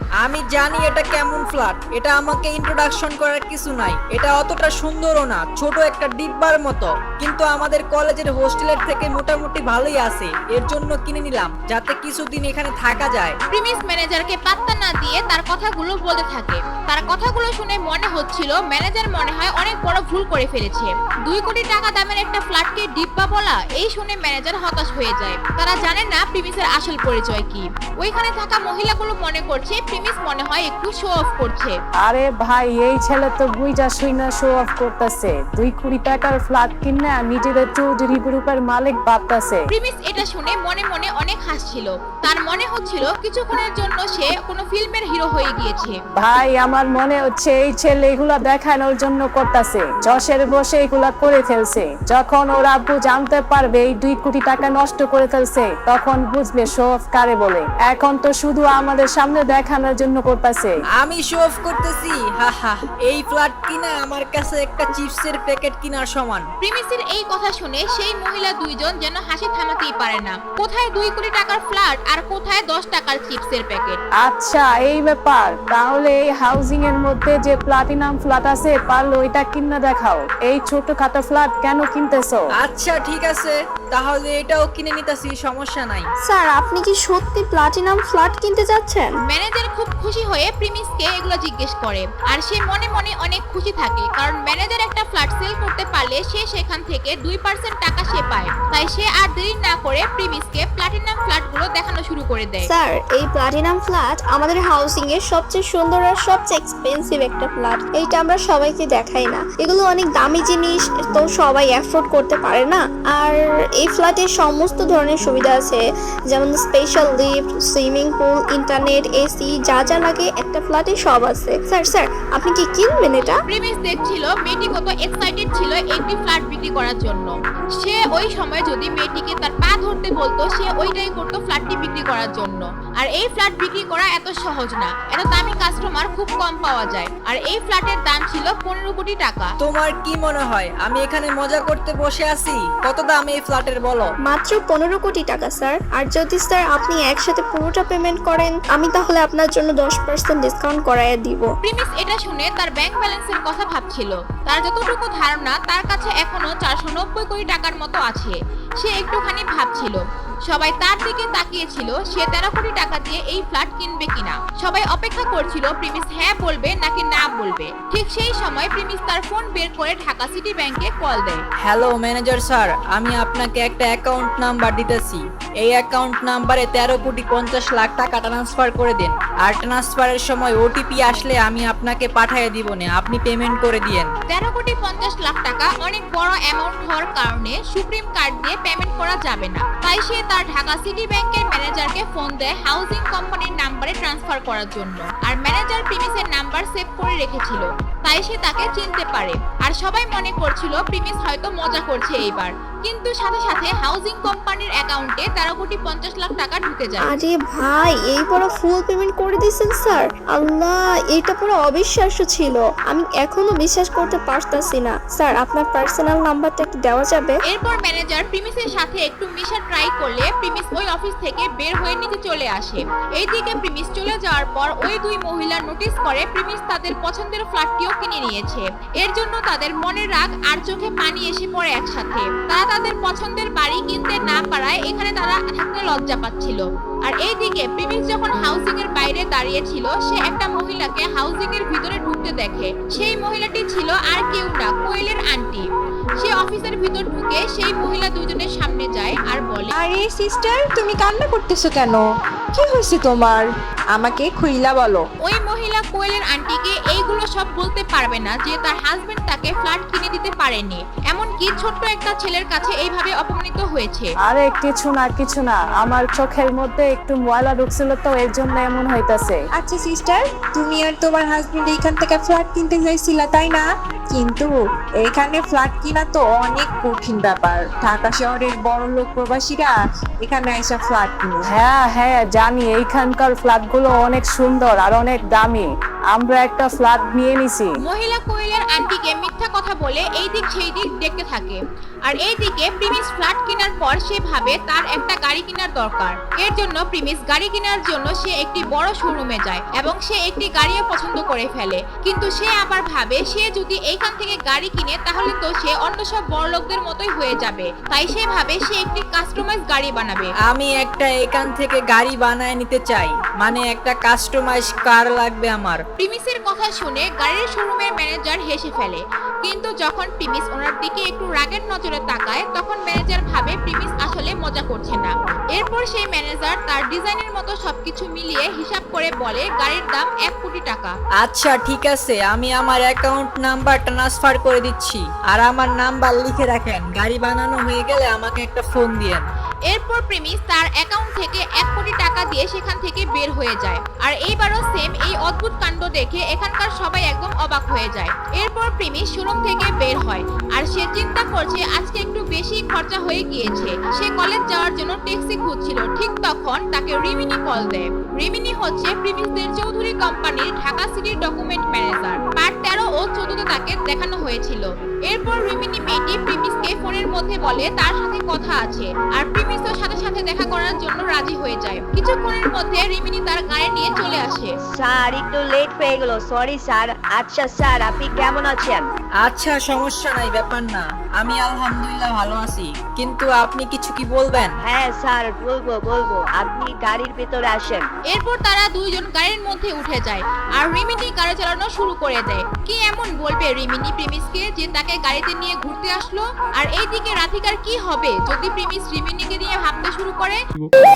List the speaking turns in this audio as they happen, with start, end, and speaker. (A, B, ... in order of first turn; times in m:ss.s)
0:00.2-0:13.4 A
0:13.5-0:31.8 B
0:32.0-0:39.6 C
0:39.7-0:46.0 B
0:46.2-1:00.7 C
1:01.0-1:06.5 A
1:06.6-1:14.0 B
1:14.2-1:22.4 C
1:22.6-1:26.1 A
1:26.3-1:29.1 D
1:29.3-1:42.7 B
1:42.7-2:03.4 D
2:03.5-2:19.5 B
2:19.6-2:24.1 A
2:24.2-2:31.5 D
2:31.6-2:51.4 B
2:51.6-3:04.1 A
3:04.3-3:27.2 B
3:27.0-3:37.4 D
3:37.5-4:05.7 B
4:06.2-4:09.7 B
4:09.7-4:15.0 E
4:15.2-4:24.1 B
4:24.3-4:29.4 C
4:29.6-4:34.5 E
4:35.0-4:41.4 E
4:41.5-4:47.7 C
4:47.8-5:10.3 B
5:10.5-5:15.8 A
5:16.0-5:30.9 B
5:31.2-5:39.2 A
5:39.7-6:14.5 B
6:14.8-6:18.8 F
6:19.2-6:24.5 A
6:24.6-6:27.9 F
6:28.1-6:40.4 B